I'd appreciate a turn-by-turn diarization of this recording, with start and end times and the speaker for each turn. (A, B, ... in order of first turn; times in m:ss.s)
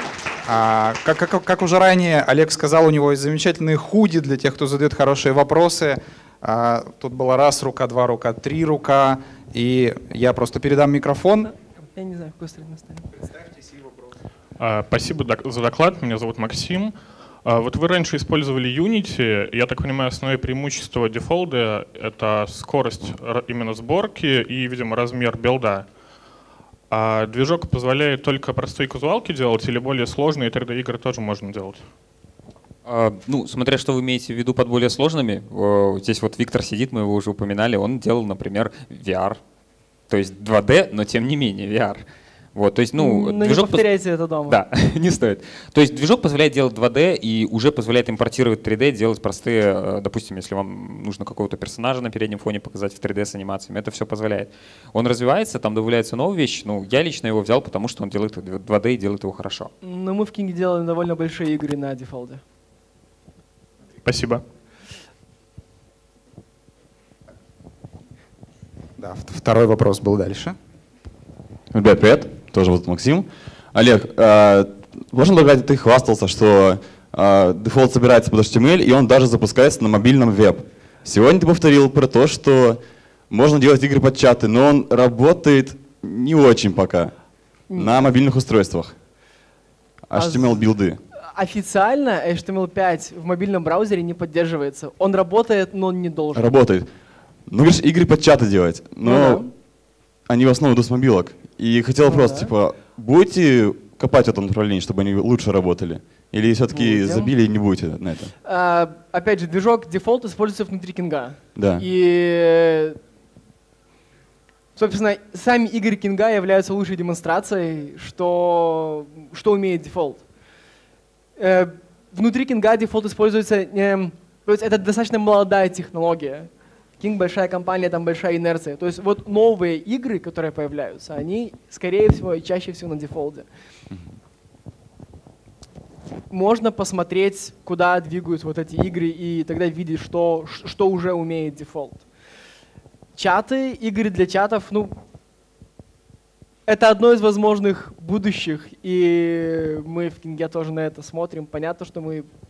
0:00.5-0:11.5 A
0:11.9-0:13.1 B
0:14.6-0:16.9 C
0:17.4-0:25.9 C
0:26.9-0:31.8 C
0:32.8-0:39.4 D
0:40.1-0:42.0 D
0:42.6-0:43.8 D
0:43.0-0:44.6 B
0:44.5-0:59.7 D
0:59.8-1:02.4 B
1:04.0-1:04.4 C
1:09.0-1:10.6 A
1:11.7-1:27.1 E
1:27.7-1:28.0 B
1:27.7-1:29.0 E
1:30.1-1:31.0 E
1:30.2-1:30.7 B
1:31.3-1:36.6 B
1:36.3-1:36.9 E
1:37.5-1:39.5 E
1:39.0-1:39.5 B
1:40.3-1:48.3 E
1:42.1-1:42.5 B
1:46.7-1:47.3 B
1:48.4-1:53.0 B
1:51.6-1:51.9 E
1:54.8-2:00.2 B
2:01.4-2:06.5 B
2:07.0-2:13.5 B
2:16.3-2:22.0 B
2:23.2-2:24.9 B
2:26.7-2:32.3 B